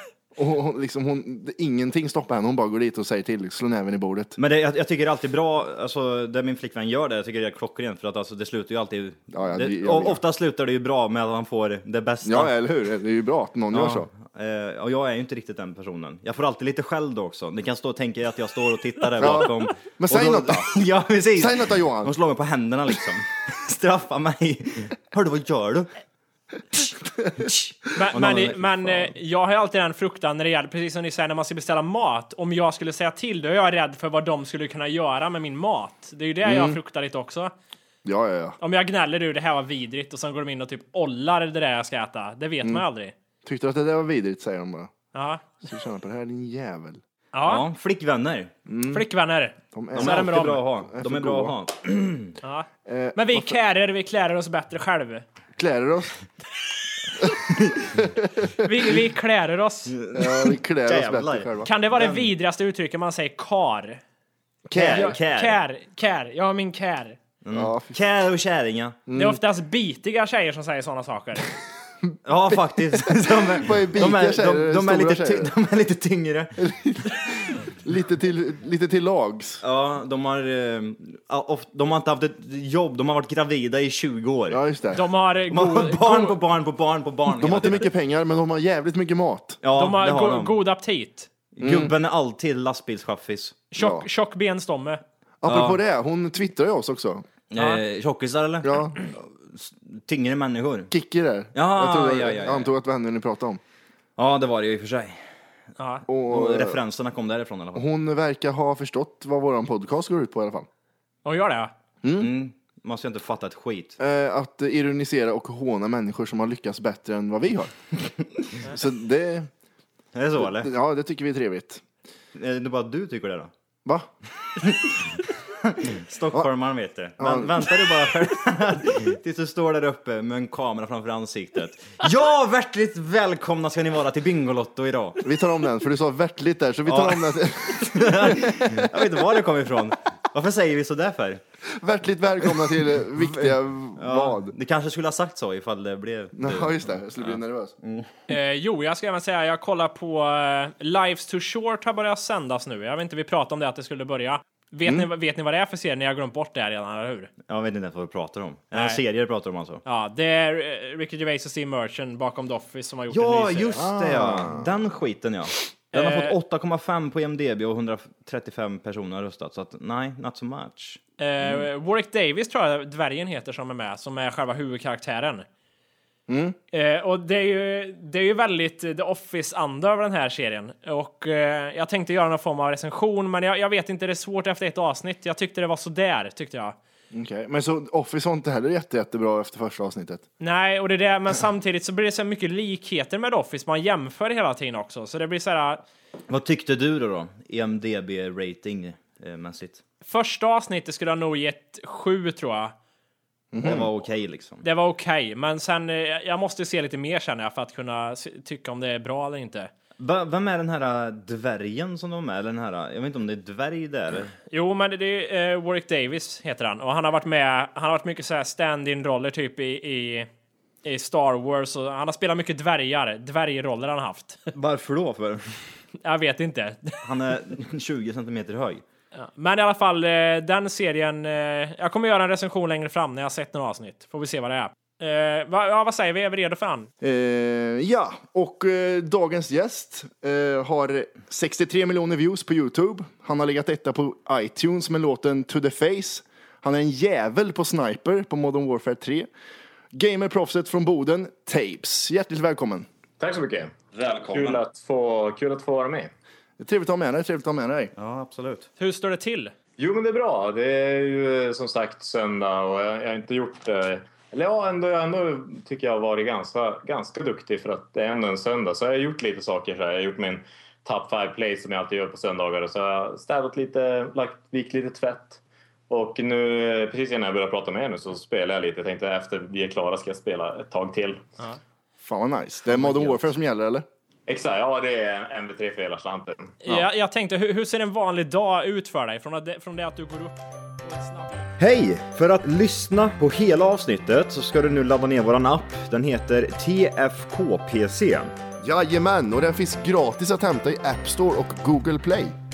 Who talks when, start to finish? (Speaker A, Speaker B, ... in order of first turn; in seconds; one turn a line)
Speaker A: 0.4-4.4
Speaker B: 4.4-12.5
Speaker A: 9.3-10.2
Speaker A: 12.2-14.1
Speaker B: 13.7-25.9
Speaker A: 19.2-20.7
Speaker A: 21.4-22.1
Speaker B: 26.8-28.9
Speaker C: 27.9-37.5
Speaker A: 36.5-36.8
Speaker A: 38.0-38.6
Speaker C: 38.6-43.1
Speaker A: 43.5-44.9
Speaker C: 45.1-45.4
Speaker A: 45.6-47.0
Speaker C: 47.3-47.6
Speaker B: 47.5-48.5
Speaker A: 48.7-49.1
Speaker C: 48.9-50.6
Speaker A: 49.7-51.5
Speaker B: 50.0-52.4
Speaker C: 52.4-55.2
Speaker A: 52.9-53.6
Speaker A: 55.6-56.1
Speaker A: 57.2-58.7
Speaker C: 58.6-60.0
Speaker B: 59.9-62.3
Speaker A: 60.1-61.7
Speaker C: 61.6-64.0
Speaker A: 64.7-65.2
Speaker B: 64.7-65.6
Speaker C: 64.9-67.2
Speaker B: 67.4-69.0
Speaker A: 67.5-68.0
Speaker A: 69.1-69.4
Speaker C: 69.2-71.5
Speaker B: 72.2-76.5
Speaker A: 72.5-75.5
Speaker A: 76.6-79.6
Speaker B: 79.6-84.6
Speaker A: 84.5-85.0
Speaker C: 85.0-86.4
Speaker B: 85.5-87.9
Speaker A: 87.3-89.6
Speaker B: 89.6-90.6
Speaker C: 89.8-91.3
Speaker B: 91.6-93.6
Speaker A: 91.6-91.9
Speaker C: 93.7-95.0
Speaker A: 93.8-94.1
Speaker A: 95.4-97.3
Speaker B: 95.5-95.8
Speaker B: 97.5-100.9
Speaker C: 97.6-97.8
Speaker A: 98.6-99.0
Speaker A: 100.9-103.6
Speaker B: 101.5-102.7
Speaker B: 104.2-105.2
Speaker C: 105.8-106.0
Speaker A: 106.1-106.8
Speaker B: 106.1-107.8
Speaker A: 107.8-110.7
Speaker C: 111.2-111.7
Speaker A: 112.0-112.3
Speaker B: 112.2-114.0
Speaker A: 114.0-117.7
Speaker A: 118.7-119.5
Speaker B: 120.2-120.7
Speaker A: 120.4-121.8
Speaker B: 122.3-123.5
Speaker B: 124.6-135.2
Speaker A: 127.2-127.7
Speaker A: 135.2-139.0
Speaker B: 136.9-141.4
Speaker A: 141.8-144.5
Speaker B: 143.2-148.1
Speaker A: 146.4-147.7
Speaker C: 148.3-157.3
Speaker B: 157.5-159.8
Speaker C: 158.7-159.0
Speaker C: 159.8-163.9
Speaker B: 163.1-171.0
Speaker A: 163.8-164.7
Speaker C: 165.9-166.3
Speaker C: 171.2-175.5
Speaker A: 176.3-176.6
Speaker C: 176.7-186.8
Speaker A: 187.1-190.2
Speaker C: 190.4-195.8
Speaker B: 196.3-199.8
Speaker C: 200.1-202.7
Speaker A: 203.5-203.9
Speaker B: 203.6-204.6
Speaker C: 204.6-209.7
Speaker B: 210.0-214.3
Speaker C: 214.5-220.3
Speaker C: 220.8-224.4
Speaker B: 224.5-225.6
Speaker C: 226.0-227.0
Speaker B: 227.0-228.8
Speaker C: 229.2-236.9
Speaker A: 237.0-249.3
Speaker A: 249.9-252.9
Speaker D: 253.2-256.1
Speaker B: 254.3-254.6
Speaker A: 256.6-257.9
Speaker B: 258.0-258.7
Speaker C: 258.8-259.5
Speaker D: 259.8-281.2
Speaker A: 282.0-283.9
Speaker B: 282.8-283.0
Speaker D: 284.3-286.6
Speaker C: 286.6-291.5
Speaker B: 291.6-298.3
Speaker A: 298.6-302.4